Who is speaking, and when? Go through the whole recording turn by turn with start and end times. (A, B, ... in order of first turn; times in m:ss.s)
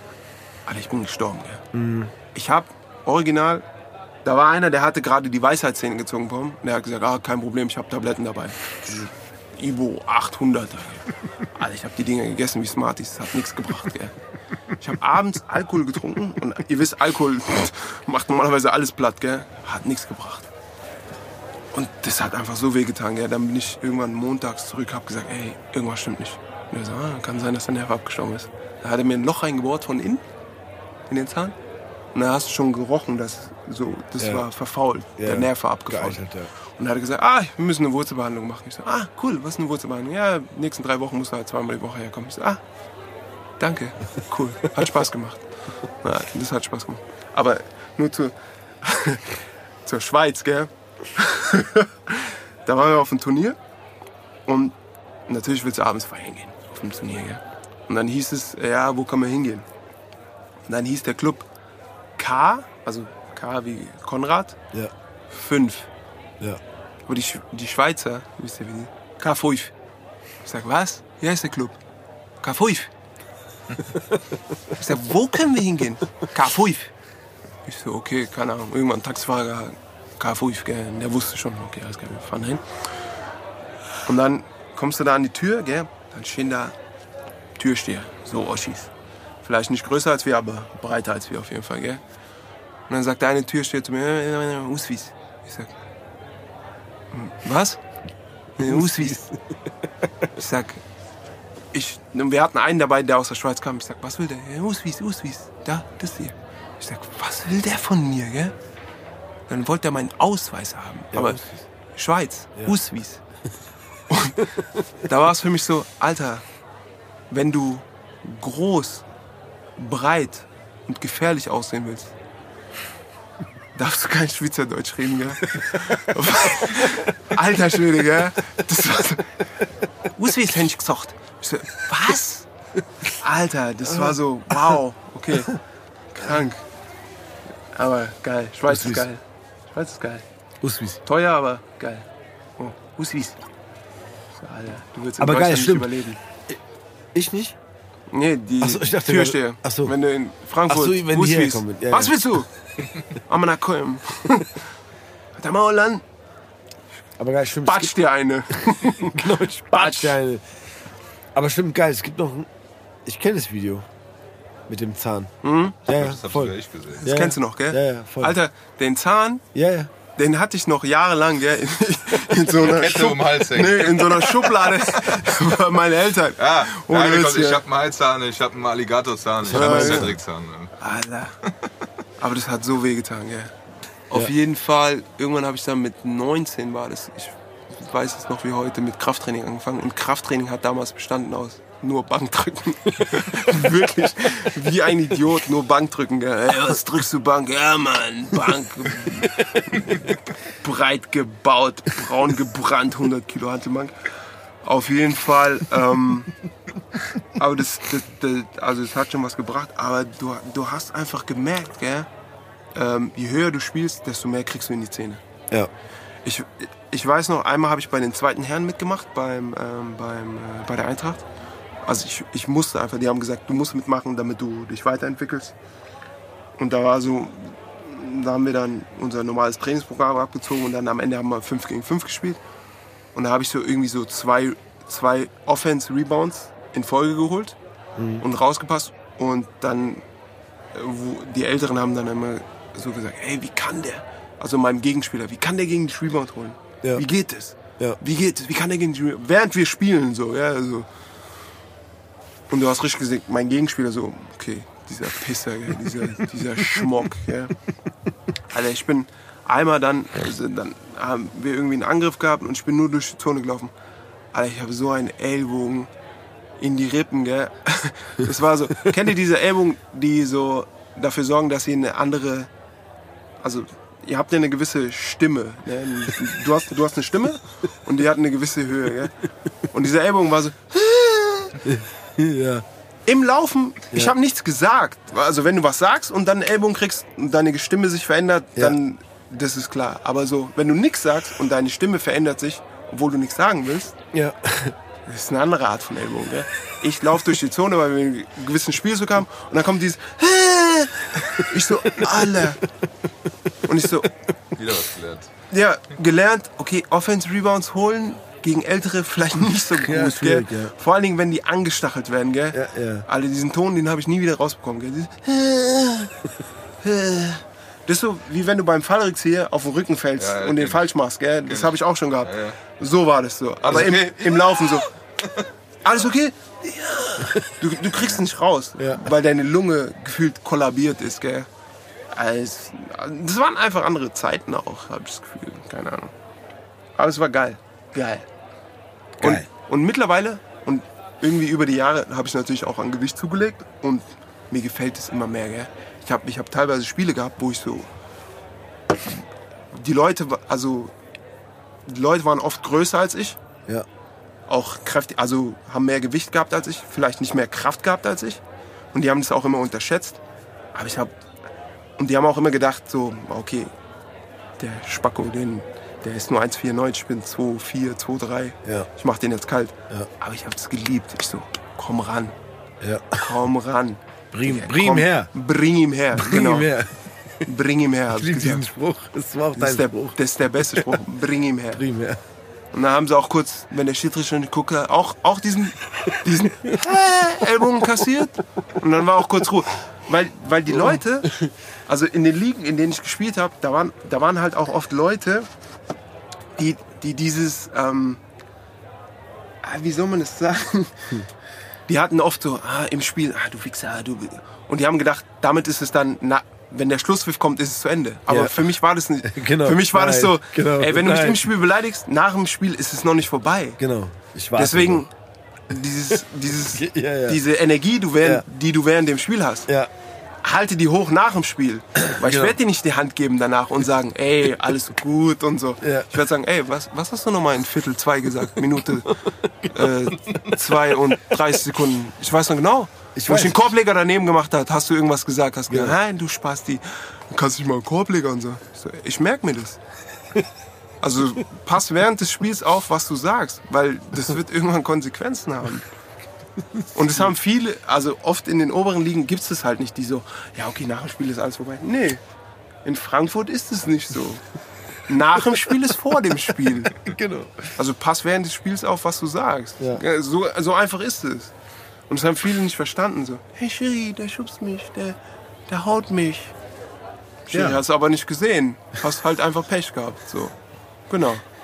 0:00.6-0:01.6 A
0:01.7-0:02.1 B
0:02.3-0:03.6 A
0:04.2-0:14.1 A
0:14.8-0:20.5 A
0:21.7-0:30.2 A
0:31.1-0:31.6 A
0:32.1-0:36.2 A
0:34.2-0:34.4 B
0:35.2-0:36.5 B
0:36.8-0:42.6 A
0:43.6-0:45.4 A
0:46.0-0:49.3 A
0:49.8-0:53.6 A
0:54.4-0:54.8 A
0:55.3-0:59.6 A
1:00.7-1:01.5 A
1:02.2-1:04.6 A
1:05.3-1:05.9 A
1:07.1-1:09.7 A
1:10.4-1:11.8 A
1:12.4-1:12.9 A
1:14.7-1:16.9 A
1:17.6-1:22.6 A
1:24.0-1:26.7 A
1:27.6-1:28.9 A
1:29.4-1:32.0 A
1:32.9-1:35.7 A
1:37.1-1:37.8 A
1:38.6-1:39.2 A
1:38.6-1:39.3 B
1:40.4-1:40.8 A
1:41.7-1:48.5 A
1:49.5-1:51.4 A
1:51.1-1:51.6 B
1:51.9-1:53.2 A
1:54.1-1:54.5 A
1:55.0-1:56.4 A
1:57.3-1:59.0 A
1:59.8-2:02.1 A
2:03.8-2:09.4 A
2:10.0-2:12.5 A
2:13.1-2:15.6 A
2:13.9-2:14.7 B
2:16.1-2:16.6 A
2:17.7-2:20.2 A
2:18.7-2:19.1 B
2:20.6-2:21.0 B
2:21.0-2:22.1 A
2:22.6-2:23.4 A
2:24.4-2:26.2 A
2:25.2-2:25.9 B
2:27.1-2:27.6 B
2:28.1-2:32.5 A
2:28.6-2:29.9 B
2:30.7-2:32.2 B
2:33.1-2:34.5 A
2:35.4-2:36.0 A
2:37.2-2:38.0 B
2:37.6-2:40.2 A
2:38.6-2:40.4 B
2:41.3-2:42.5 B
2:43.0-2:43.9 B
2:44.7-2:45.3 B
2:45.4-2:45.8 A
2:45.8-2:48.4 B
2:45.9-2:47.0 C
2:47.0-2:49.4 A
2:49.5-2:49.9 B
2:50.2-2:57.6 A
2:52.5-2:54.6 C
2:56.4-3:00.7 C
2:59.4-3:00.2 B
2:59.5-3:00.1 A
3:00.8-3:01.3 A
3:02.2-3:03.5 A
3:04.1-3:24.0 A
3:24.6-3:26.3 A
3:27.4-3:32.1 A
3:32.7-3:35.2 A
3:36.2-3:41.2 A
3:41.8-3:45.6 A
3:46.6-3:52.4 A
3:53.1-3:57.6 A
3:58.0-3:58.2 B
3:58.2-4:00.0 A
4:00.7-4:10.9 A
4:12.5-4:17.6 A
4:18.5-4:23.7 A
4:24.3-4:25.9 A
4:26.6-4:32.5 A
4:33.4-4:39.1 A
4:39.7-4:41.6 A
4:41.6-4:42.6 B
4:43.1-4:54.0 A
4:54.1-4:54.7 B
4:55.1-5:02.6 A
5:01.9-5:02.5 B
5:03.6-5:04.1 A
5:04.5-5:05.3 C
5:05.5-5:16.1 A
5:09.7-5:10.7 B
5:12.5-5:13.0 B
5:16.8-5:24.9 A
5:20.2-5:20.9 C
5:21.4-5:22.6 C
5:23.7-5:24.1 C
5:23.7-5:24.0 B
5:25.8-5:31.5 A
5:28.8-5:29.1 B
5:32.1-5:36.1 A
5:37.0-5:38.3 A
5:39.2-5:39.4 B
5:39.2-5:47.9 A
5:49.7-5:50.9 A
5:51.9-5:53.4 A
5:54.5-5:58.4 A
5:58.9-6:00.2 A
6:00.7-6:01.1 A
6:02.0-6:03.7 A
6:04.6-6:12.4 A
6:08.6-6:08.9 B
6:12.8-6:13.3 B
6:13.2-6:16.7 A
6:14.3-6:15.3 B
6:16.1-6:17.0 B
6:17.4-6:18.6 A
6:18.1-6:21.0 B
6:19.6-6:21.8 A
6:21.7-6:22.2 B
6:22.7-6:31.3 A
6:30.7-6:31.5 B
6:31.9-6:35.5 A
6:36.6-6:38.2 A
6:39.6-6:41.1 A
6:41.9-6:53.8 A
6:48.3-6:51.5 B
6:53.8-6:55.0 B
6:54.6-6:55.1 A
6:55.7-6:59.7 A
6:56.7-6:57.4 B
7:00.4-7:19.8 A
7:02.0-7:02.6 B
7:05.8-7:06.1 B
7:09.2-7:10.6 B
7:13.1-7:13.6 B
7:15.7-7:16.0 B
7:21.0-7:25.9 A
7:26.9-7:32.2 A
7:32.8-7:34.4 A
7:35.1-7:37.1 A
7:37.0-7:37.7 B
7:37.8-7:41.5 A
7:42.1-7:46.5 A
7:47.5-7:50.5 A
7:47.5-7:47.8 B
7:51.1-7:51.4 A